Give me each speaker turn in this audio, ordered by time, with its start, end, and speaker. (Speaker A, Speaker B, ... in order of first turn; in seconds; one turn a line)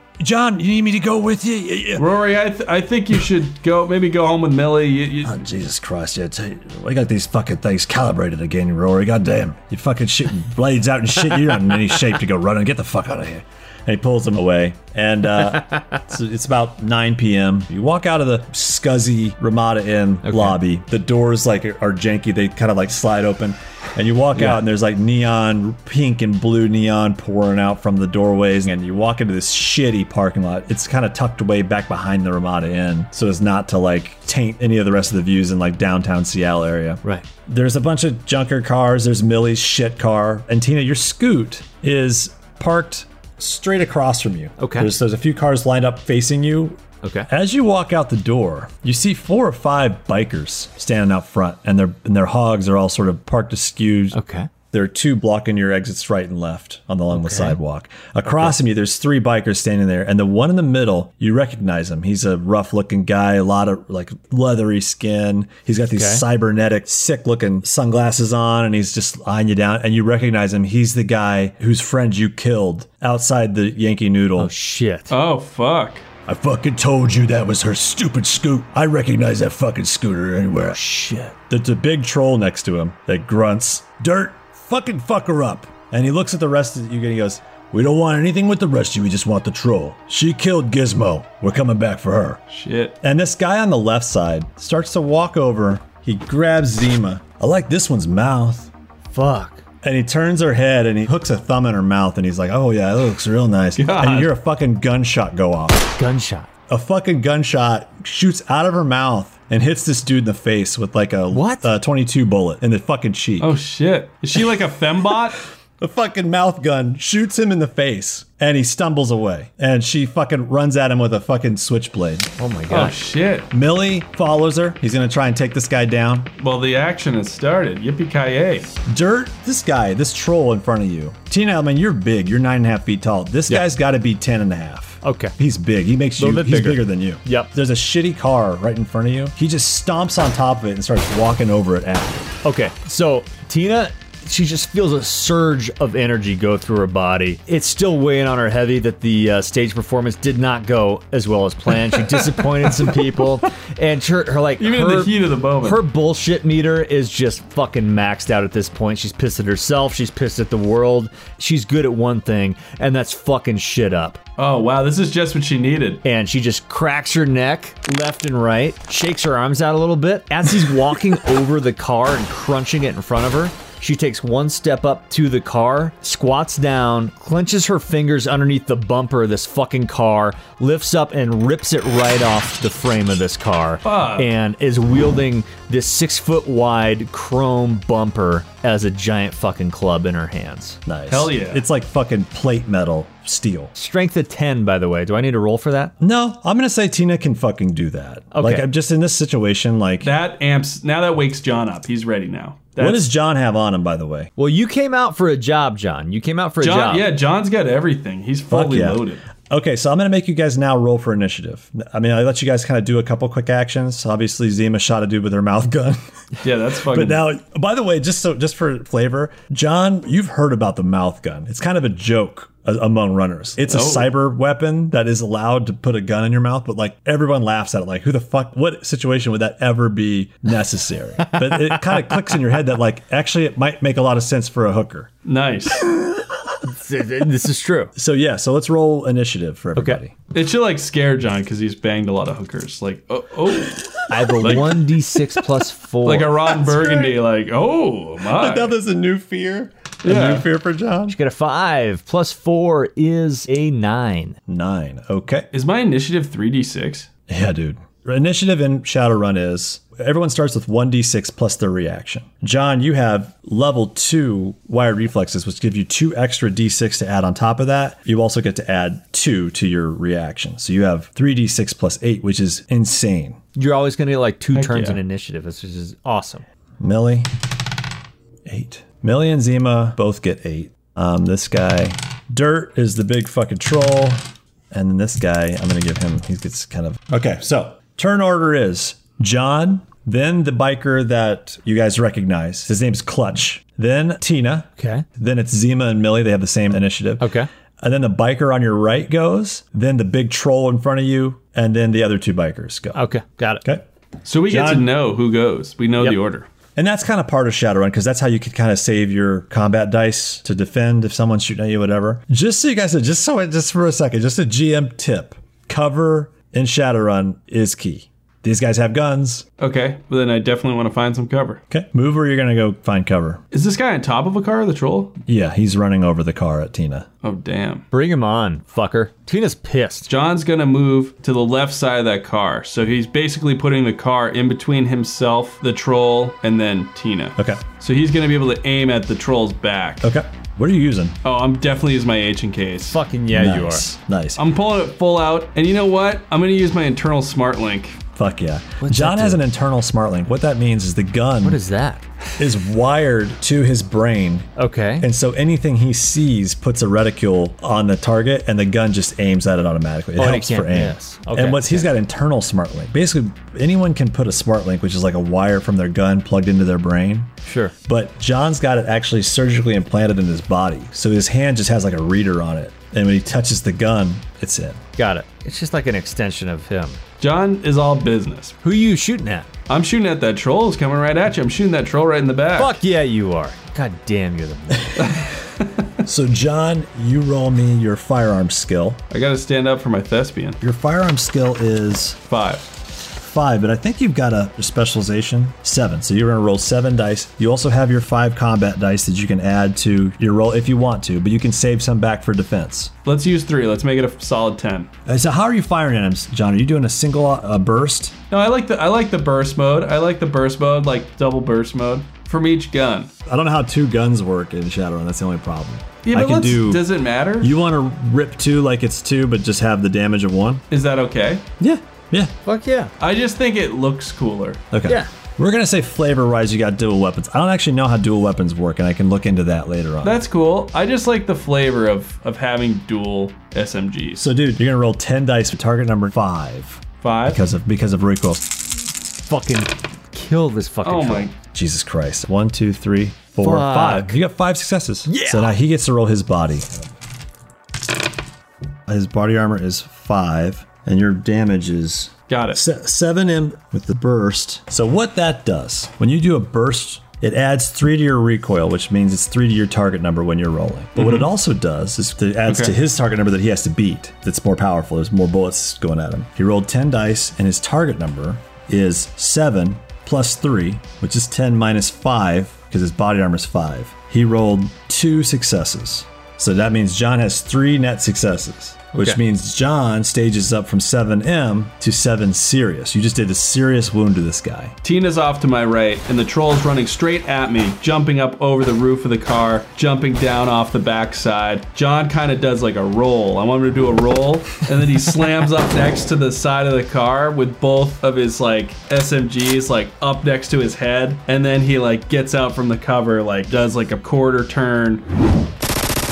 Speaker A: 0.2-2.1
Speaker B: 2.0-5.4
Speaker A: 5.2-54.2
Speaker C: 20.2-20.6
Speaker C: 24.4-24.6
Speaker C: 44.6-44.9
Speaker C: 47.0-47.3
Speaker C: 54.1-54.5
Speaker A: 54.7-74.5
Speaker C: 57.1-57.6
Speaker C: 65.9-66.2
Speaker C: 74.4-75.1
Speaker B: 75.1-76.0
Speaker A: 76.3-80.8
Speaker C: 80.7-81.3
Speaker A: 81.5-92.4
Speaker B: 92.5-93.0
Speaker A: 93.0-98.7
Speaker C: 99.1-99.6
Speaker A: 99.8-105.9
Speaker B: 103.8-104.3
Speaker C: 106.0-106.5
Speaker A: 106.7-113.6
Speaker C: 111.3-111.7
Speaker B: 113.4-115.4
Speaker A: 115.8-122.3
Speaker C: 122.4-123.0
Speaker B: 122.7-123.5
Speaker A: 123.5-126.3
Speaker B: 126.4-128.7
Speaker A: 128.9-142.3
Speaker C: 135.0-135.3
Speaker C: 136.2-137.5
Speaker C: 142.4-164.2
Speaker B: 154.6-155.8
Speaker B: 164.4-166.0
Speaker C: 166.0-190.8
Speaker B: 183.8-184.3
Speaker A: 190.9-193.7
Speaker B: 191.1-191.6
Speaker C: 193.8-195.9
Speaker A: 196.0-200.1
Speaker C: 198.3-198.7
Speaker B: 200.0-203.0
Speaker A: 202.8-204.3
Speaker C: 204.4-207.1
Speaker B: 206.6-209.2
Speaker A: 208.5-216.0
Speaker B: 216.4-217.2
Speaker A: 216.8-235.1
Speaker B: 223.7-224.1
Speaker C: 231.2-232.2
Speaker B: 235.2-235.9
Speaker C: 236.6-237.9
Speaker A: 238.0-240.2
Speaker B: 240.3-244.9
Speaker C: 244.1-246.6
Speaker B: 246.1-248.7
Speaker A: 248.2-251.2
Speaker B: 250.0-250.5
Speaker C: 251.1-254.4
Speaker A: 254.5-255.5
Speaker B: 255.5-257.1
Speaker A: 257.3-273.4
Speaker C: 273.6-276.4
Speaker B: 274.5-275.0
Speaker A: 276.8-277.3
Speaker A: 278.5-303.0
Speaker C: 294.8-295.1
Speaker C: 297.2-297.5
Speaker C: 302.9-303.6
Speaker B: 304.2-306.5
Speaker A: 304.5-304.9
Speaker A: 306.8-319.4
Speaker B: 319.6-321.6
Speaker A: 321.7-323.4
Speaker B: 323.5-325.2
Speaker A: 325.3-327.1
Speaker B: 327.2-327.9
Speaker C: 327.9-330.1
Speaker B: 330.1-340.0
Speaker A: 337.4-337.6
Speaker A: 340.0-341.2
Speaker B: 341.2-343.0
Speaker C: 342.9-343.9
Speaker A: 343.3-344.4
Speaker B: 344.4-348.0
Speaker A: 348.2-351.6
Speaker C: 348.8-349.4
Speaker C: 351.4-352.0
Speaker A: 352.4-354.5
Speaker C: 354.6-355.1
Speaker A: 355.0-367.3
Speaker C: 360.2-361.9
Speaker C: 367.5-367.7
Speaker A: 367.9-374.8
Speaker C: 375.0-377.0
Speaker B: 377.2-378.6
Speaker C: 378.6-379.5
Speaker B: 379.7-382.7
Speaker C: 382.6-385.2
Speaker B: 385.0-385.7
Speaker A: 386.0-389.0
Speaker B: 389.1-390.6
Speaker A: 390.6-392.2
Speaker B: 392.3-392.7
Speaker A: 393.1-402.9
Speaker B: 403.1-404.9
Speaker A: 405.1-408.1
Speaker B: 408.3-413.1
Speaker A: 413.3-416.9
Speaker B: 416.0-417.5
Speaker A: 417.4-420.6
Speaker B: 420.7-421.4
Speaker A: 421.6-422.3
Speaker C: 422.5-422.9
Speaker B: 423.0-424.6
Speaker A: 424.7-430.2
Speaker B: 430.0-434.3
Speaker A: 434.2-438.6
Speaker B: 437.0-437.4
Speaker C: 439.2-441.3
Speaker B: 440.8-441.4
Speaker A: 441.5-446.9
Speaker C: 443.4-444.2
Speaker C: 445.1-445.6
Speaker A: 448.9-484.8
Speaker B: 452.3-452.6
Speaker B: 461.0-461.3
Speaker B: 462.5-462.7
Speaker C: 478.9-479.2
Speaker B: 484.8-505.0